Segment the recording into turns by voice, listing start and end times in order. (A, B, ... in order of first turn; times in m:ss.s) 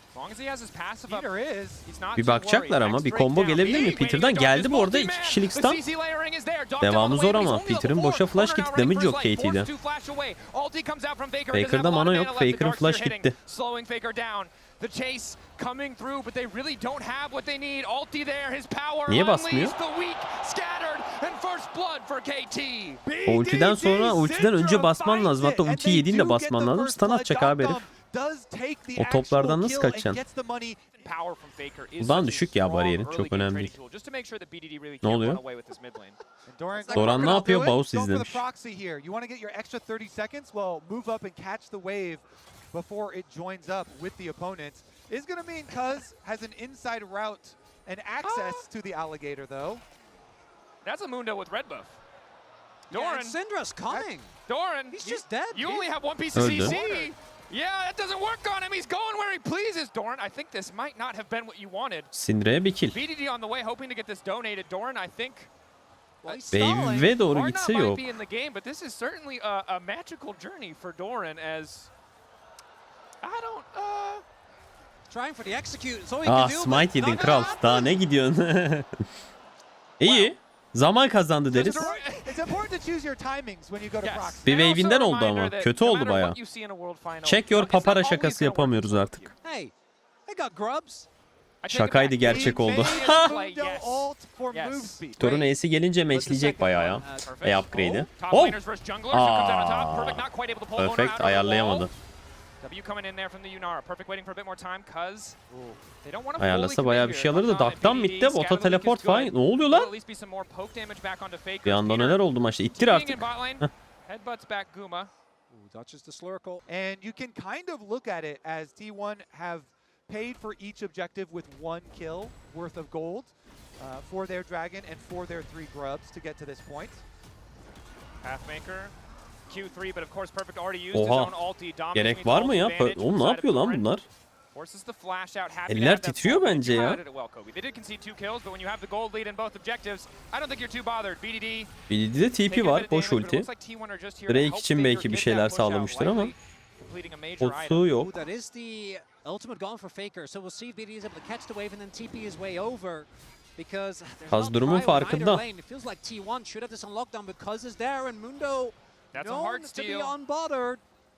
0:00.1-0:01.3 A
0:01.1-0:01.8 B
0:01.8-0:23.0 A
0:02.2-0:05.8 C
0:06.8-0:09.7 C
0:11.5-0:13.3 C
0:19.1-0:19.8 C
0:23.0-0:30.8 B
0:23.3-0:27.8 C
0:29.0-0:30.2 C
0:31.0-0:36.2 A
0:32.0-0:33.7 C
0:35.0-0:35.4 C
0:36.4-0:49.8 B
0:36.7-0:37.7 D
0:36.9-0:38.4 C
0:48.2-0:48.6 A
0:50.8-0:52.0 A
0:52.9-0:54.3 D
0:52.9-0:53.4 A
0:54.5-1:02.1 A
0:54.9-0:57.1 D
0:56.3-0:56.8 C
1:02.1-1:03.0 C
1:02.9-1:05.5 A
1:06.2-1:11.9 A
1:06.2-1:07.2 D
1:06.5-1:08.0 C
1:13.2-1:14.2 A
1:15.1-1:17.7 D
1:16.2-1:18.9 C
1:17.0-1:17.9 A
1:20.0-1:21.9 C
1:20.0-1:20.3 A
1:21.5-1:22.6 A
1:21.6-1:24.4 B
1:24.0-1:29.3 A
1:24.4-1:26.4 C
1:27.2-1:29.3 C
1:29.4-1:29.7 D
1:30.3-1:31.1 D
1:31.6-1:35.5 A
1:31.7-1:33.4 C
1:32.2-1:35.2 B
1:35.2-1:38.6 C
1:36.1-1:37.4 D
1:37.0-1:41.9 A
1:39.1-1:41.9 C
1:42.6-1:45.4 A
1:45.5-1:45.8 D
1:46.0-1:55.1 A
1:46.4-1:49.9 C
1:51.6-1:53.7 C
1:55.5-1:56.6 D
1:56.7-2:07.0 B
2:08.2-2:08.9 A
2:09.5-2:13.9 A
2:10.9-2:11.3 C
2:11.9-2:14.1 C
2:14.5-2:21.7 A
2:15.7-2:17.0 C
2:21.9-2:23.5 C
2:22.5-2:27.8 A
2:24.3-2:26.3 C
2:27.4-2:28.1 C
2:28.0-2:40.8 D
2:34.3-2:35.4 C
2:39.1-2:40.2 A